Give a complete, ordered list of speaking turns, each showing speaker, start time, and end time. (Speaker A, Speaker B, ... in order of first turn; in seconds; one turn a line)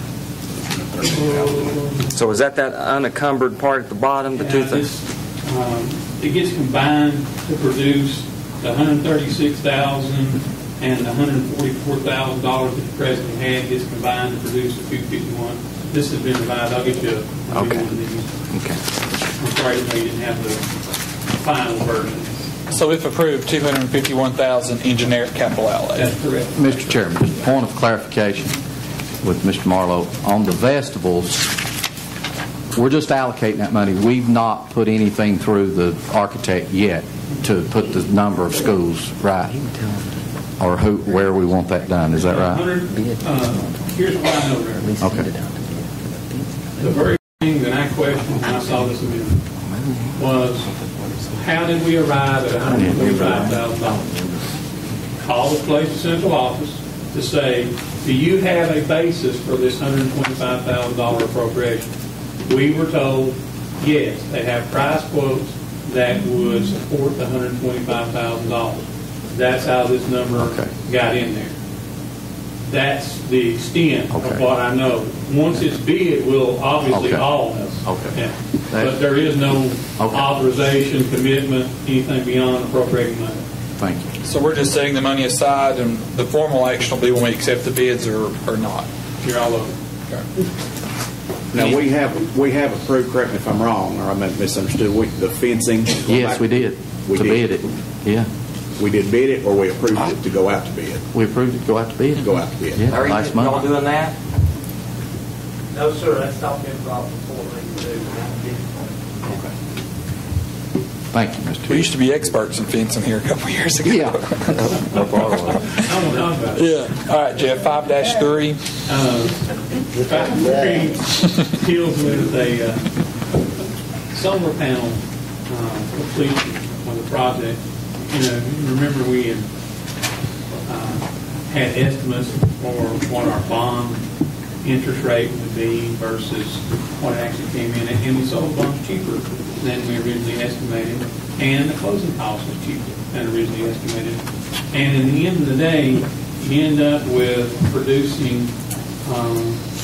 Speaker A: 0.7-1.8
Speaker B: 1.0-2.1
Speaker C: 2.1-4.9
Speaker B: 4.3-18.3
Speaker C: 17.5-17.9
Speaker C: 18.5-18.8
Speaker B: 19.4-20.7
Speaker B: 21.3-22.3
Speaker D: 22.7-26.1
Speaker B: 25.9-26.9
Speaker E: 26.5-28.5
Speaker E: 29.2-31.5
Speaker E: 32.7-39.5
Speaker C: 39.5-40.1
Speaker E: 40.6-42.6
Speaker B: 42.2-44.9
Speaker C: 42.9-43.7
Speaker C: 44.8-46.5
Speaker E: 45.0-45.3
Speaker B: 46.8-49.4
Speaker C: 49.6-50.2
Speaker B: 50.1-50.7
Speaker C: 50.7-51.2
Speaker B: 51.3-54.1
Speaker C: 52.6-54.5
Speaker E: 52.7-53.6
Speaker B: 55.2-61.9
Speaker B: 62.5-71.5
Speaker E: 70.4-70.7
Speaker B: 72.7-83.4
Speaker E: 74.1-74.4
Speaker E: 76.9-77.3
Speaker E: 77.8-78.2
Speaker E: 78.7-79.0
Speaker E: 80.0-80.3
Speaker E: 83.8-84.1
Speaker D: 84.2-88.9
Speaker B: 89.2-89.8
Speaker A: 91.5-96.5
Speaker E: 96.1-98.3
Speaker A: 97.0-97.4
Speaker A: 98.8-101.0
Speaker E: 101.1-103.7
Speaker A: 102.2-102.9
Speaker C: 102.9-104.1
Speaker F: 105.7-108.6
Speaker E: 111.1-111.9
Speaker D: 111.7-115.9
Speaker E: 113.8-115.7
Speaker B: 115.9-116.7
Speaker D: 116.5-118.6
Speaker B: 118.8-122.9
Speaker B: 124.1-129.5
Speaker B: 130.7-134.1
Speaker B: 134.6-148.5
Speaker B: 149.0-149.6